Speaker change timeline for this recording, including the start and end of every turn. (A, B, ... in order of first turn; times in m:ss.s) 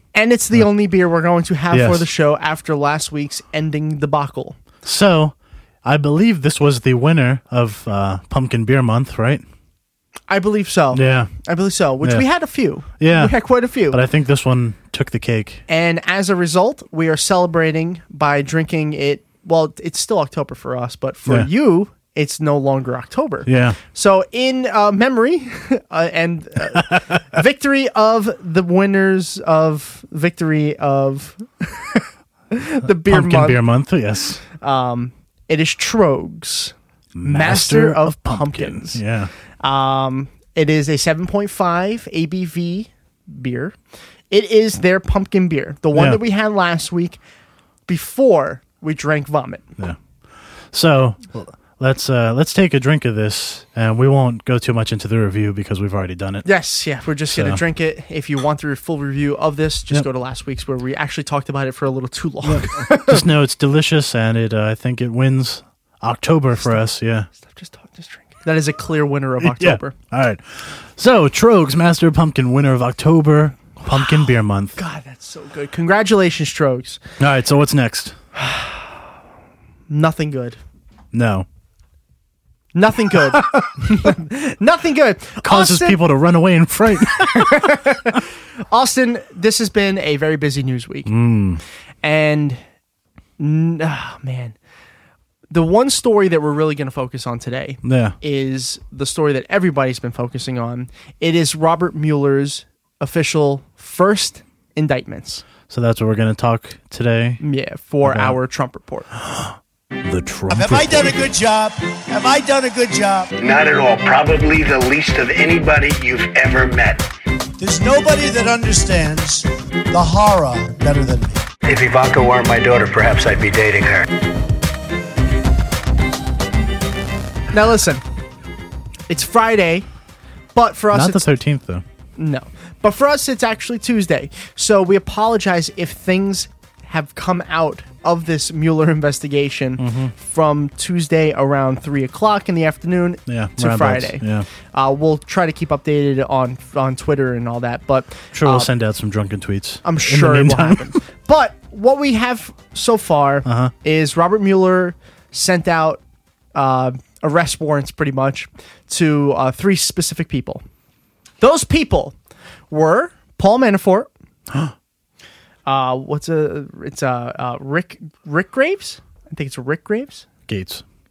0:00.1-0:04.6 A
0:01.7-0:02.1 B
0:04.8-0:09.4 B
0:10.3-0:14.0 A
0:10.9-0:11.3 B
0:13.0-0:15.6 B
0:15.7-0:33.6 A
0:23.4-0:23.8 B
0:26.7-0:27.2 B
0:32.9-0:34.4 B
0:34.6-0:39.0 A
0:37.2-0:39.3 B
0:39.6-0:43.8 A
0:44.3-0:47.2 A
0:45.9-0:46.2 B
0:47.9-0:49.7 A
0:50.7-0:56.5 B
0:56.4-1:03.2 A
0:57.3-0:57.6 B
1:02.4-1:07.3 B
1:06.6-1:09.9 A
1:09.4-1:14.8 B
1:13.9-1:17.0 A
1:17.2-1:18.2 B
1:18.4-1:18.9 A
1:19.9-1:20.6 A
1:21.1-1:21.4 B
1:22.7-1:26.0 A
1:23.3-1:24.1 B
1:25.4-1:28.2 B
1:27.2-1:31.1 A
1:31.1-1:31.6 B
1:32.0-1:32.6 A
1:33.4-1:34.6 A
1:35.5-1:45.4 A
1:37.8-1:38.2 B
1:45.7-1:47.4 B
1:47.4-1:49.1 A
1:48.0-1:48.4 B
1:49.2-1:51.2 B
1:50.5-1:53.3 C
1:53.4-1:57.0 D
1:57.6-2:01.4 C
2:01.7-2:04.0 D
2:07.5-2:08.0 A
2:09.1-2:09.9 A
2:10.6-2:11.3 A
2:10.9-2:11.8 B
2:12.2-2:28.7 A
2:19.8-2:20.1 B
2:23.3-2:24.5 B
2:28.3-2:31.0 B
2:29.8-2:36.0 A
2:33.4-2:33.7 B
2:36.6-2:40.6 A
2:41.4-2:42.1 A
2:42.7-2:44.1 A
2:45.6-2:50.2 A
2:50.5-2:50.8 B